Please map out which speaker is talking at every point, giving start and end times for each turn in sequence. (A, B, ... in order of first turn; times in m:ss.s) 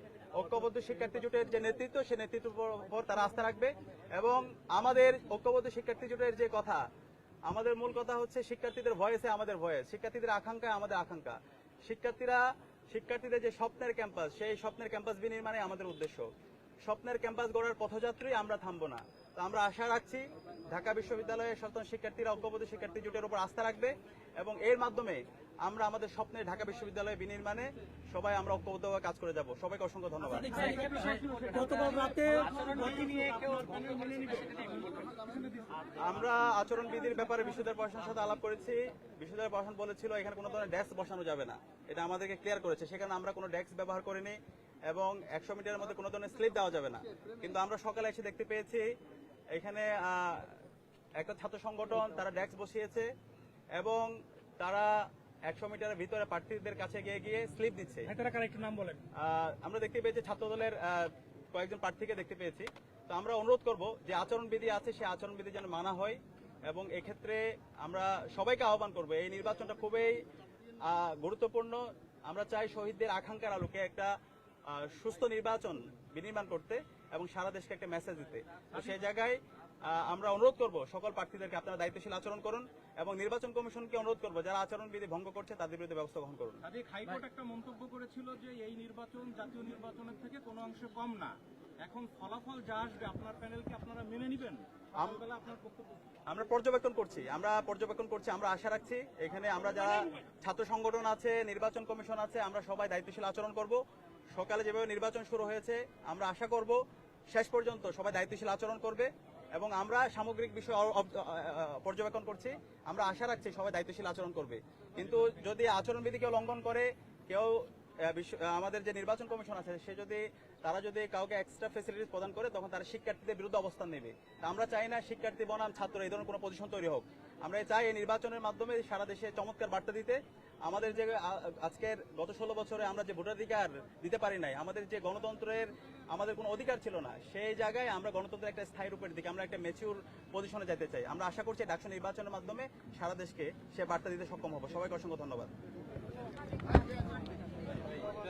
0:00.3-0:06.8 A
0:07.5-0:16.3 A
0:16.8-0:30.6 A
0:30.5-0:35.7 B
0:36.0-0:44.4 A
0:44.9-0:48.9 A
0:49.5-0:50.6 A
0:51.2-0:53.1 A
0:53.8-0:58.1 A
0:58.1-0:59.0 B
0:59.1-1:10.2 A
1:10.8-1:14.1 A
1:14.7-1:26.6 A
1:26.6-1:36.0 B
1:36.3-1:43.8 A
1:44.3-2:25.5 A